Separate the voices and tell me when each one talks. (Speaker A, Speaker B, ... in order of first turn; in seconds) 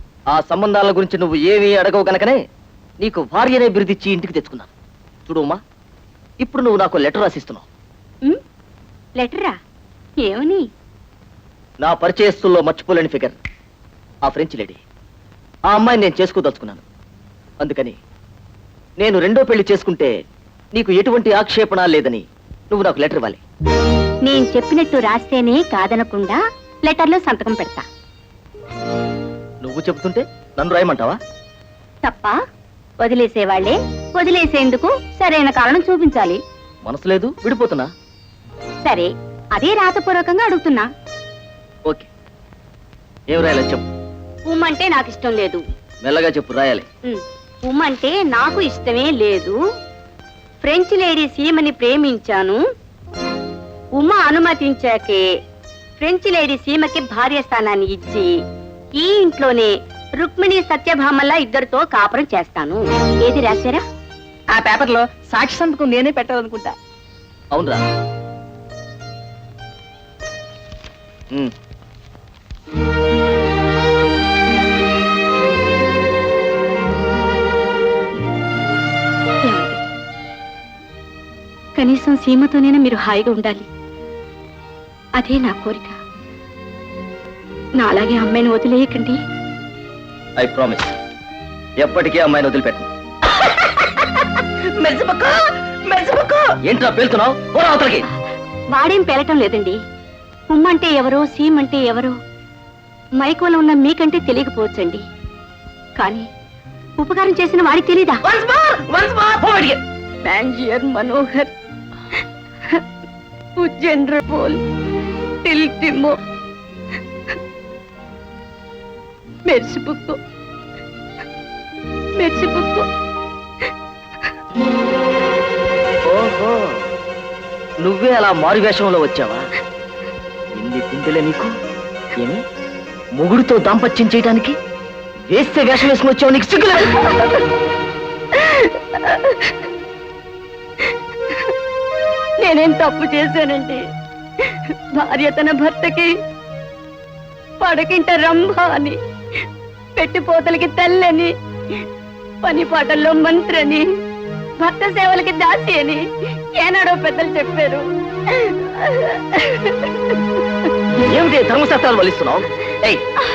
Speaker A: 0.3-2.4, 3.0-4.7, 5.2-5.6, 6.4-7.7, 11.8-13.3, 14.2-14.8, 15.7-16.8, 17.6-18.0, 19.0-20.1, 20.7-23.4, 29.6-31.2, 36.8-37.9, 43.3-43.8, 46.0-46.9, 67.5-67.8, 90.4-90.9, 91.8-92.9, 96.6-98.0, 126.1-126.9, 127.8-129.5, 130.5-131.5, 133.2-134.5, 135.3-137.1, 161.1-163.0
Speaker B: 9.2-9.5, 10.2-10.6, 24.2-27.8, 32.0-32.4, 33.0-36.4, 38.8-40.8, 44.5-45.6, 47.0-49.5, 50.6-52.5, 54.0-55.2, 56.0-58.2, 59.0-59.7, 60.3-63.8, 81.8-83.6, 85.2-85.9, 87.9-89.1, 98.7-99.8, 100.5-102.1, 103.2-105.0, 106.0-106.2, 107.0-108.2, 110.2-111.5, 113.6-114.6, 115.4-116.2, 119.5-120.2, 122.2-122.8, 138.4-139.5, 142.4-143.8, 144.9-146.1, 147.6-148.9, 150.0-151.3, 152.4-153.8, 154.6-157.8, 158.3-160.2
Speaker C: 64.5-66.7, 93.5-93.9, 94.8-96.4, 108.2-109.7